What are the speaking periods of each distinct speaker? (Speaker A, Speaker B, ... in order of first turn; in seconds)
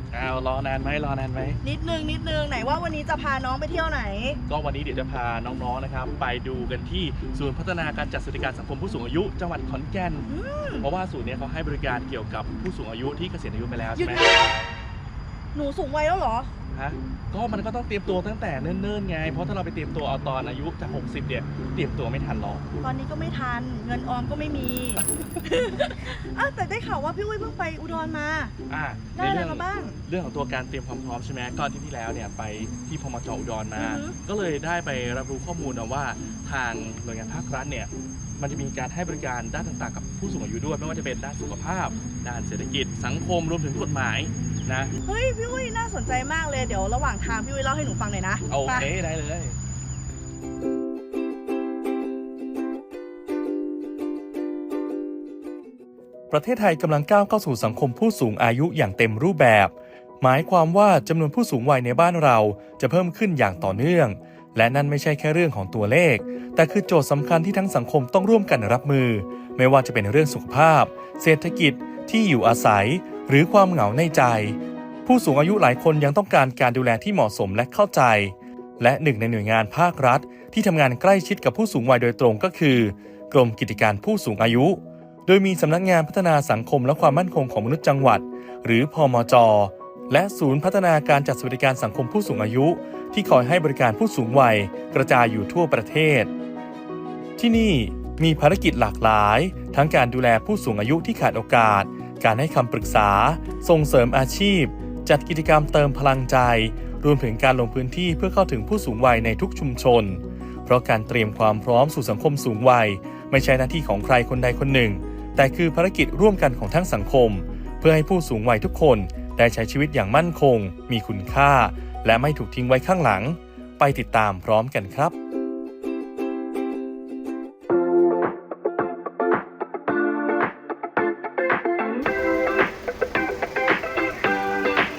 Speaker A: 0.1-1.6, 4.5-10.3, 10.8-14.2, 16.7-22.6, 28.7-44.9, 48.5-49.5
Speaker B: 1.6-4.4, 10.3-10.9, 13.9-14.5, 15.5-16.5, 22.8-28.5, 29.1-30.0, 33.7-34.2, 45.0-48.9
Speaker C: 56.3-96.3, 97.4-125.1